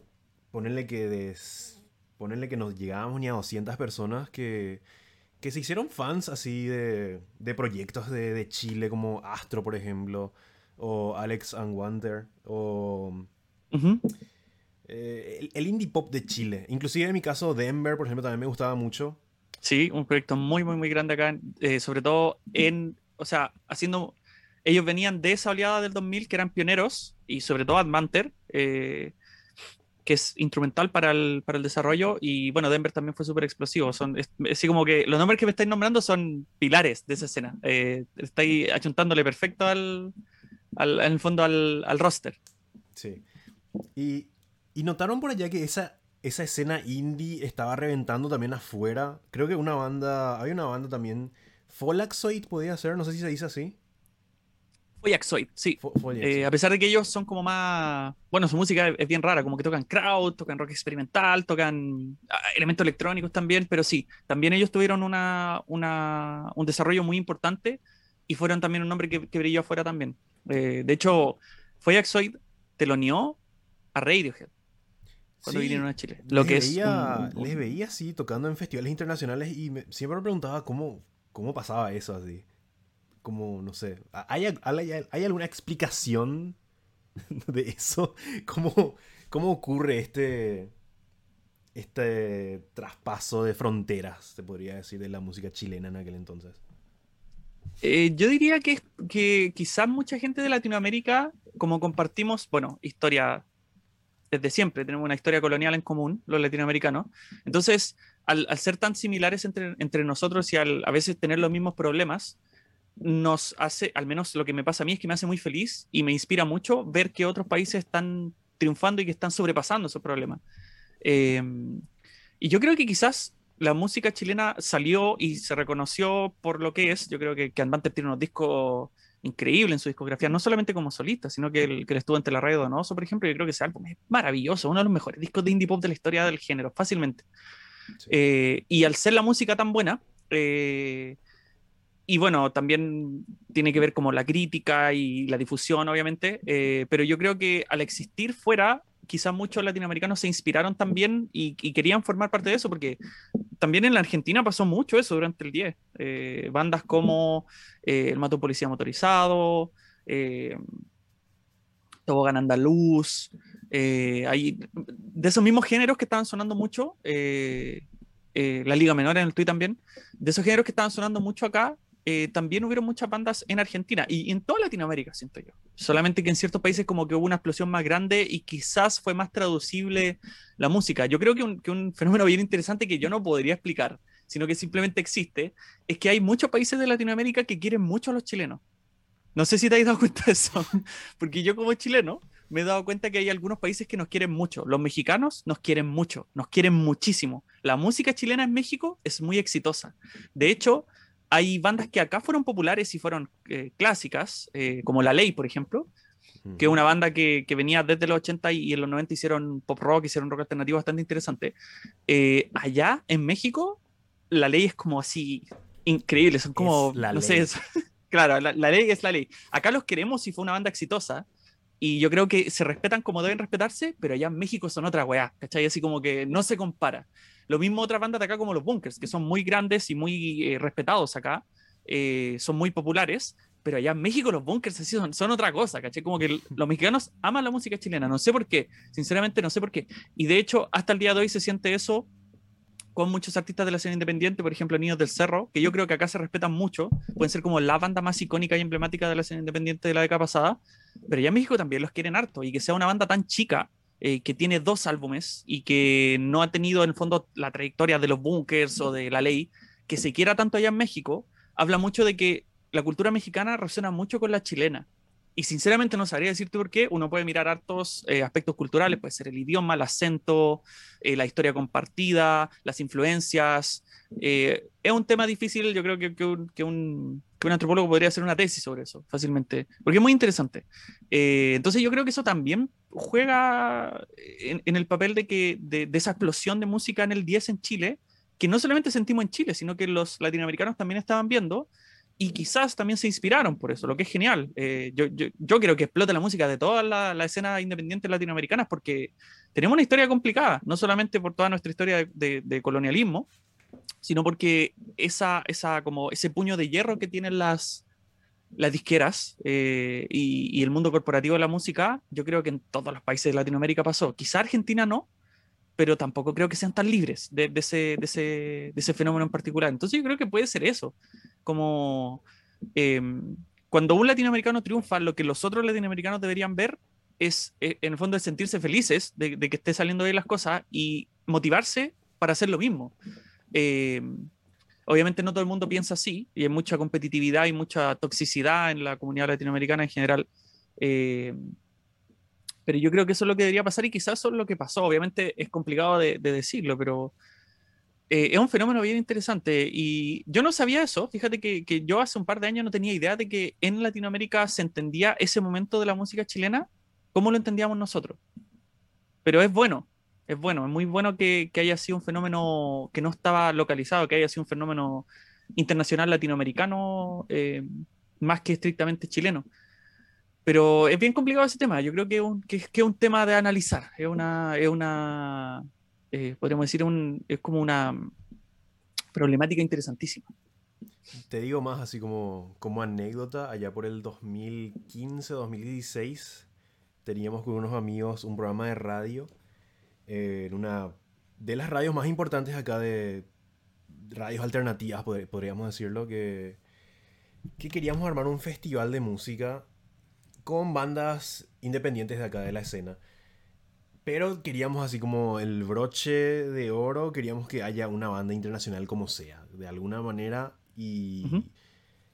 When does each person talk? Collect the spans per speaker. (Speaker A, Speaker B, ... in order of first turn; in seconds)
Speaker A: 0.5-4.8, 5.4-13.3, 14.8-19.2, 43.0-43.2, 44.0-53.8, 55.8-56.5, 75.4-82.5, 83.2-86.6, 87.4-90.7, 91.7-96.6, 206.4-206.8, 216.6-217.5, 381.3-386.5, 387.0-389.3, 390.1-393.3, 393.9-396.6, 397.6-399.7, 400.4-403.0, 404.0-411.5
Speaker B: 13.7-14.0, 19.6-29.1, 30.0-40.1, 40.8-42.4, 55.0-73.4, 73.9-74.5, 75.5-77.5, 97.8-103.4, 104.3-112.4, 113.0-120.4, 121.0-121.8, 122.4-137.2, 138.1-141.2, 142.1-153.0, 153.6-160.6, 162.1-188.6, 189.3-205.9, 206.6-211.6, 212.1-221.2, 221.8-242.1, 242.9-303.3, 304.0-307.8, 308.6-315.1, 315.8-322.2, 322.7-332.9, 333.5-334.3, 334.9-340.3, 340.8-341.4, 342.6-347.1, 348.1-358.2, 359.2-369.5, 370.4-378.1, 379.1-380.3